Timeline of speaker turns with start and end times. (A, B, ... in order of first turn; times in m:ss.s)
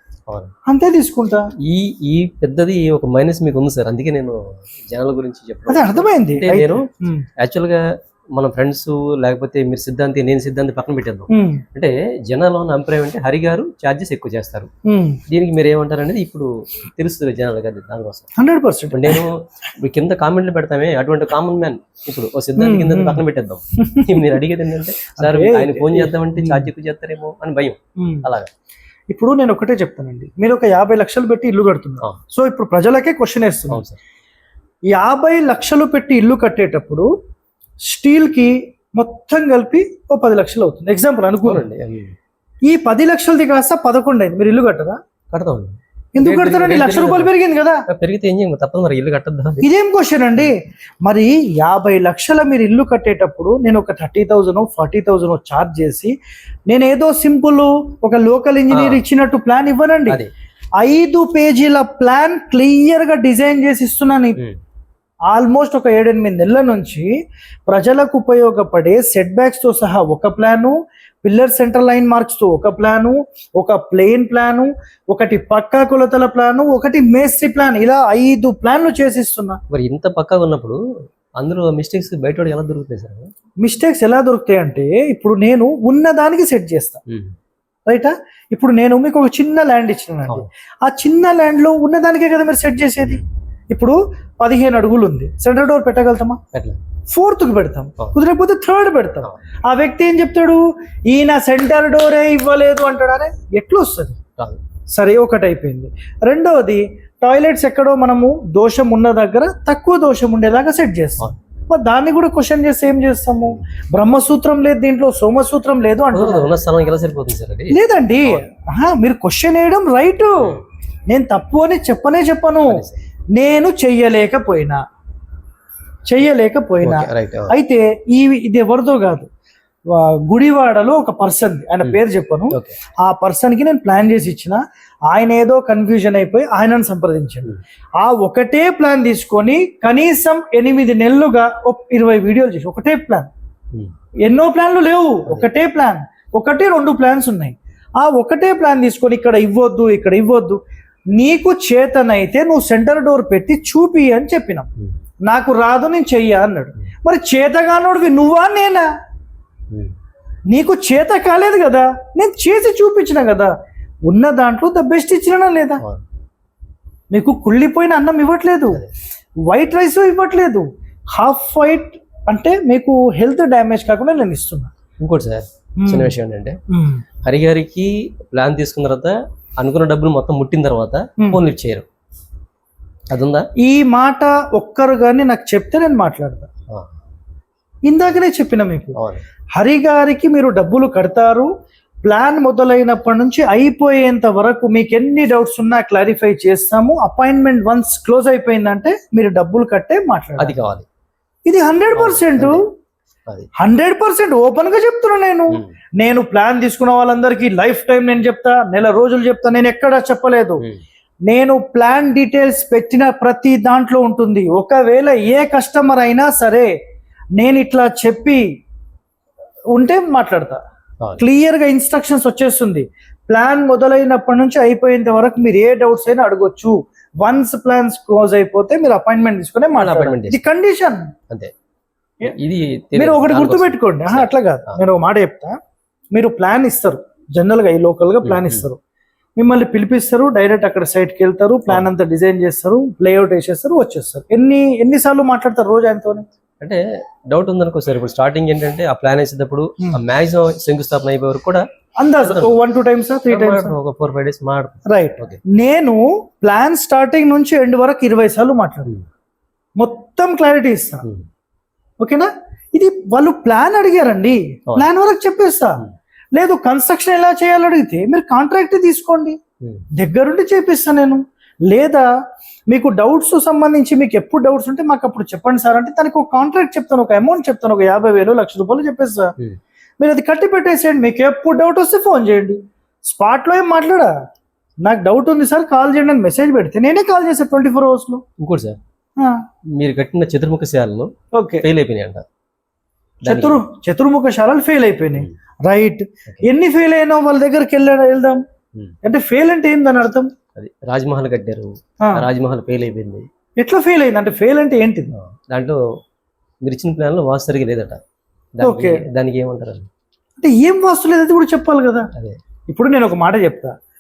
0:00.6-0:01.5 A
0:01.6-0:07.8 B
0:05.7-0:07.2 A
0:08.4-0:14.7 B
0:11.3-0:11.6 A
0:14.8-0:15.2 A
0:15.3-0:18.3 B
0:18.4-0:19.2 A
0:18.9-0:28.5 B
0:22.6-0:23.2 A
0:23.8-0:24.4 A
0:25.2-0:26.7 A
0:28.0-0:28.2 A
0:29.1-0:33.8 A
0:33.7-0:34.0 B
0:34.9-0:37.1 A
0:37.8-0:41.6 A
0:41.4-0:42.1 B
0:42.6-0:45.0 A
0:45.3-0:47.3 B
0:46.1-0:47.8 A
0:47.9-0:49.7 B
0:49.6-0:56.1 A
0:56.7-1:00.2 A
0:58.7-0:59.0 B
1:00.8-1:04.4 A
1:05.3-1:07.1 A
1:07.7-1:19.6 A
1:19.7-1:20.8 B
1:21.4-1:23.3 B
1:23.6-1:27.0 A
1:27.1-1:27.3 B
1:27.9-1:36.4 A
1:36.5-1:36.8 B
1:37.1-1:44.2 A
1:44.9-1:56.5 A
1:56.1-1:58.4 B
1:57.7-2:04.8 A
2:02.7-2:02.9 B
2:06.0-2:09.3 A
2:06.8-2:07.5 B
2:09.9-2:23.3 A
2:12.5-2:12.8 B
2:24.2-2:30.6 A
2:31.1-2:34.7 A
2:35.2-2:38.9 A
2:40.5-2:43.5 A
2:44.1-2:45.8 A
2:47.1-2:48.8 A
2:49.4-2:54.7 A
2:55.0-2:56.6 B
2:55.8-2:56.1 A
2:56.7-2:57.0 A
2:57.2-3:01.8 B
3:03.1-3:03.5 B
3:03.6-3:06.5 A
3:07.8-3:09.0 A
3:09.0-3:09.2 B
3:09.6-3:11.5 A
3:12.0-3:20.8 A
3:20.4-3:20.8 B
3:21.5-3:22.7 A
3:21.9-3:22.6 B
3:23.6-3:30.6 A
3:31.3-3:36.7 A
3:37.4-3:38.4 A
3:39.7-3:40.6 A
3:41.2-3:51.1 A
3:49.8-3:50.4 B
3:52.2-3:54.8 B
3:53.0-3:55.6 A
3:56.1-3:58.8 A
3:58.2-3:58.6 B
3:59.4-4:06.2 A
4:07.3-4:11.6 B
4:12.0-4:13.7 A
4:12.2-4:12.6 B
4:13.3-4:15.4 B
4:14.9-4:18.9 A
4:19.8-4:21.0 A
4:22.0-4:29.4 A
4:29.6-4:29.9 B
4:29.9-4:32.1 A
4:32.7-4:39.3 A
4:40.0-4:44.1 A
4:44.8-4:48.2 A
4:48.4-4:48.8 B
4:49.2-4:49.4 A
4:49.8-4:51.1 B
4:51.3-4:51.6 A
4:51.6-4:52.2 B
4:53.2-4:53.6 B
4:53.2-4:58.4 A
4:59.0-5:00.3 A
5:00.5-5:03.2 B
5:02.0-5:02.2 A
5:03.6-5:05.1 A
5:05.1-5:05.8 B
5:06.6-5:08.0 B
5:08.5-5:09.9 B
5:08.6-5:09.0 A
5:10.4-5:12.1 A
5:12.7-5:13.7 A